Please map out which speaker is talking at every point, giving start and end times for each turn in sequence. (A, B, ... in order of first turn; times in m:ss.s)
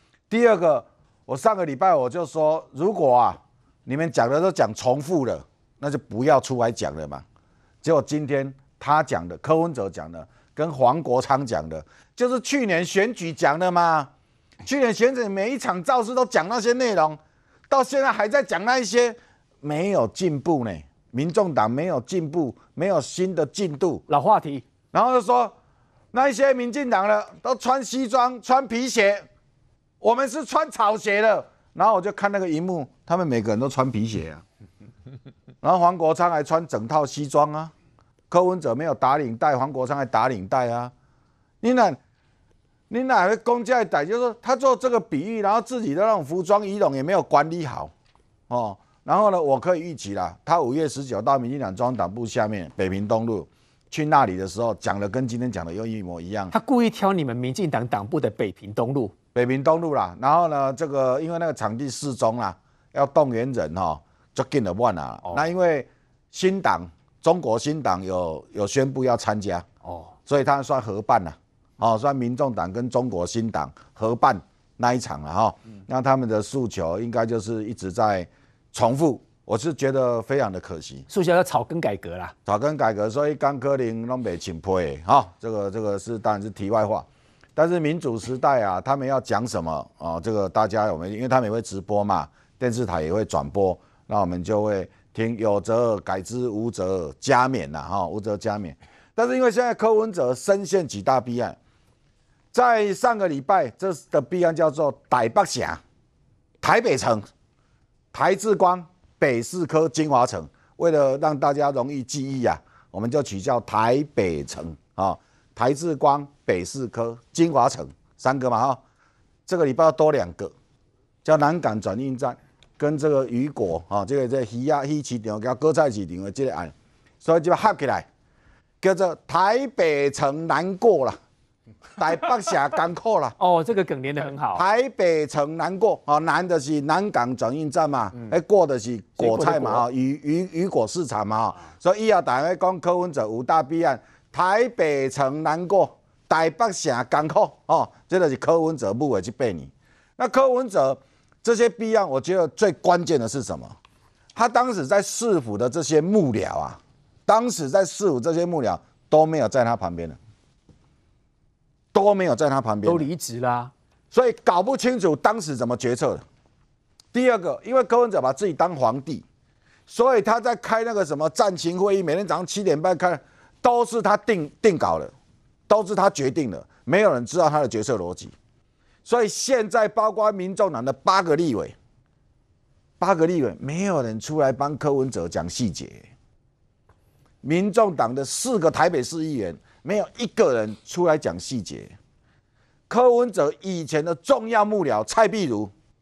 0:00.3-0:07.2 A
0:07.8-0:14.1 A
0:14.6-0:17.2 A
0:17.7-0:24.0 A
0:24.1-0:24.6 B
0:24.9-0:25.5 A
0:26.1-0:29.2 A
0:30.0-0:34.4 A
0:35.6-0:37.7 A
0:38.3-0:40.9 A
0:41.6-0:42.0 A
0:42.9-0:47.9 A
0:48.5-0:56.5 A
0:56.5-0:59.1 B
0:59.3-1:09.6 A
1:10.2-1:21.0 A
1:21.1-1:22.3 B
1:22.4-1:41.6 A
1:42.5-1:45.8 A
1:46.6-1:47.2 A
1:48.1-1:58.8 A
1:59.4-2:00.5 A
2:01.2-2:08.1 A
2:08.8-2:11.2 A
2:12.0-2:13.4 A
2:13.4-2:14.6 B
2:14.5-2:33.8 A
2:19.2-2:19.8 B
2:34.3-2:40.2 A
2:41.9-2:43.1 A
2:42.8-2:43.7 B
2:44.1-2:46.2 A
2:47.1-2:49.2 A
2:49.9-2:55.1 A
2:55.7-2:58.3 A
2:59.0-3:01.7 A
3:03.0-3:06.1 A
3:07.4-3:11.9 A
3:12.9-3:15.7 A